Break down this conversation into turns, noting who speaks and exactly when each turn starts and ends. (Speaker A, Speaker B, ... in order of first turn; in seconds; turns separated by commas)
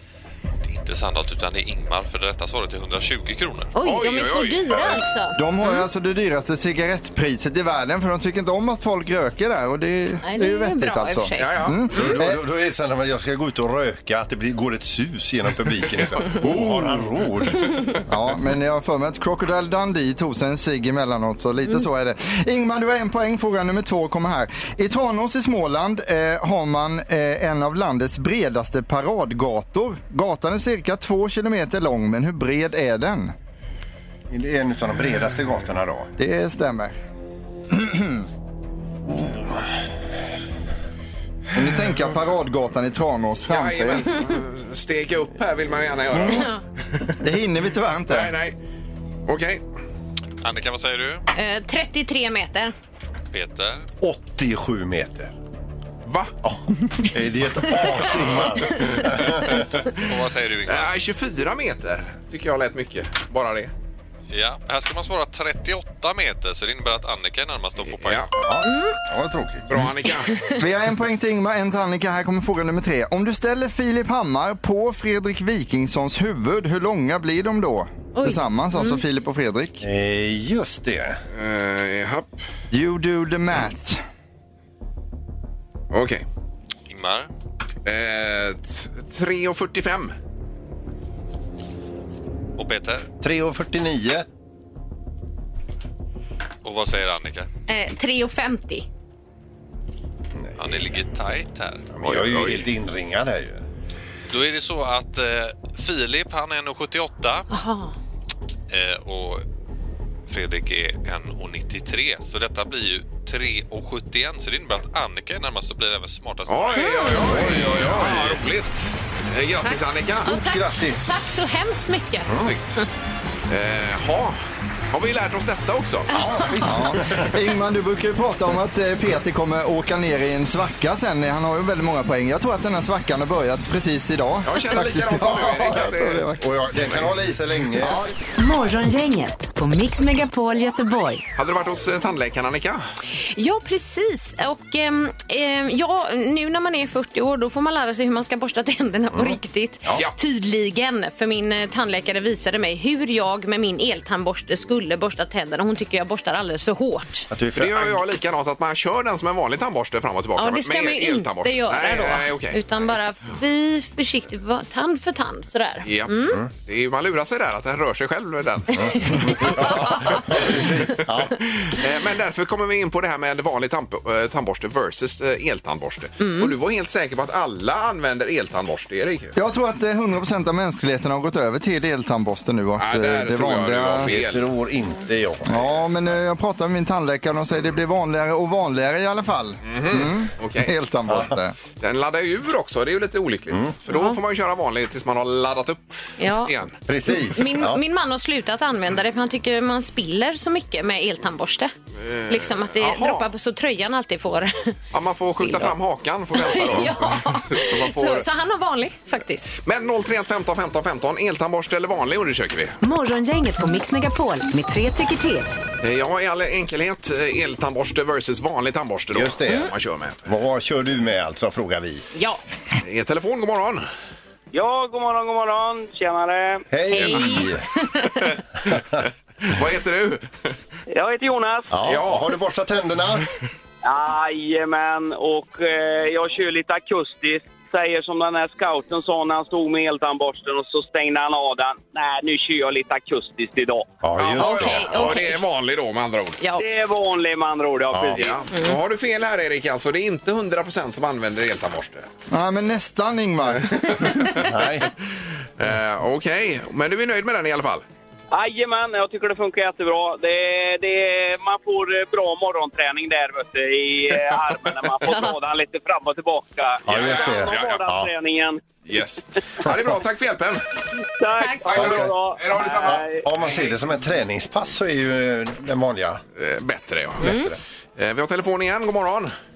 Speaker A: 0.6-3.7, Speaker B: 3.7-5.8, Speaker C: 3.8-4.9, Speaker D: 5.3-12.4, Speaker B: 10.2-11.6, Speaker C: 11.4-12.2, Speaker E: 11.9-17.8, Speaker D: 18.1-33.3, Speaker E: 34.3-36.1, Speaker D: 36.2-37.0, Speaker D: 37.7-38.2, Speaker D: 41.5-44.1, Speaker C: 43.5-46.5, Speaker D: 46.1-46.4, Speaker D: 47.2-48.3, Speaker C: 48.1-48.5, Speaker C: 49.3-49.6, Speaker A: 50.4-51.2, Speaker B: 51.3-52.7, Speaker A: 53.3-53.9, Speaker E: 54.0-55.3, Speaker C: 56.0-56.3, Speaker E: 56.4-59.7, Speaker A: 59.4-60.9, Speaker C: 60.6-63.7, Speaker A: 64.3-68.3, Speaker C: 67.8-68.3, Speaker E: 68.4-69.9, Speaker B: 68.6-69.0, Speaker C: 69.7-70.3, Speaker B: 70.3-70.5, Speaker D: 70.6-79.8, Speaker B: 78.1-79.0, Speaker E: 79.8-81.2, Speaker C: 81.3-82.3, Speaker D: 82.7-84.0, Speaker C: 85.9-86.2, Speaker A: 86.9-87.3, Speaker C: 87.8-90.1, Speaker A: 92.6-93.1, Speaker E: 93.2-94.2, Speaker A: 96.6-97.5, Speaker B: 97.7-98.8, Speaker E: 100.4-100.9, Speaker A: 100.6-102.5, Speaker E: 102.0-103.6, Speaker C: 102.0-102.6, Speaker A: 104.3-107.5, Speaker B: 107.5-107.9, Speaker A: 108.7-109.4, Speaker A: 110.3-116.9, Speaker C: 116.5-120.3, Speaker B: 116.8-117.2, Speaker E: 117.1-118.5, Speaker B: 119.6-122.8, Speaker E: 120.2-121.2, Speaker E: 122.3-122.5, Speaker C: 122.3-122.8, Speaker C: 123.5-124.3, Speaker C: 124.9-126.1, Speaker E: 126.1-127.3, Speaker B: 126.1-126.5, Speaker D: 126.6-136.4, Speaker C: 134.4-136.3, Speaker E: 135.2-138.0, Speaker F: 138.3-141.2, Speaker C: 141.3-142.8, Speaker B: 143.3-157.3, Speaker E: 149.1-150.0, Speaker E: 157.3-158.0, Speaker C: 157.5-162.6, Speaker B: 160.4-166.4, Speaker C: 165.8-170.7, Speaker E: 168.7-171.3, Speaker C: 171.6-179.3, Speaker B: 176.2-176.5, Speaker D: 179.3-184.1, Speaker C: 182.8-184.4, Speaker E: 184.0-185.8, Speaker D: 185.4-191.5, Speaker C: 189.7-190.7, Speaker C: 191.8-196.8, Speaker B: 193.9-194.2, Speaker B: 196.2-196.5, Speaker E: 196.9-197.8, Speaker B: 197.1-201.7, Speaker C: 202.0-203.3, Speaker B: 202.3-204.7, Speaker C: 204.9-208.2, Speaker B: 205.4-205.7, Speaker B: 206.3-209.5, Speaker C: 209.6-212.8, Speaker F: 212.8-215.5, Speaker C: 215.8-220.2, Speaker E: 219.1-219.7, Speaker E: 220.2-222.1, Speaker B: 222.1-222.4, Speaker C: 222.8-223.8, Speaker G: 224.5-226.6, Speaker E: 226.7-227.6, Speaker B: 226.9-228.1, Speaker C: 226.9-227.2, Speaker C: 229.4-230.3, Speaker G: 230.9-231.7, Speaker E: 231.7-233.3, Speaker C: 231.8-232.2, Speaker G: 233.8-243.9, Speaker E: 244.0-245.1, Speaker C: 244.2-246.4, Speaker B: 244.4-245.4, Speaker G: 246.6-248.5, Speaker E: 247.9-248.2, Speaker C: 248.1-252.1, Speaker D: 252.3-254.1, Speaker E: 254.4-254.9, Speaker C: 255.6-257.8, Speaker G: 258.3-268.6, Speaker E: 266.9-268.1, Speaker C: 266.9-267.8, Speaker C: 268.9-270.6, Speaker G: 271.2-273.2, Speaker C: 271.6-273.8, Speaker E: 271.7-272.1, Speaker E: 272.7-276.2, Speaker C: 276.4-277.4, Speaker B: 277.2-277.5, Speaker E: 277.2-277.6, Speaker C: 278.0-279.3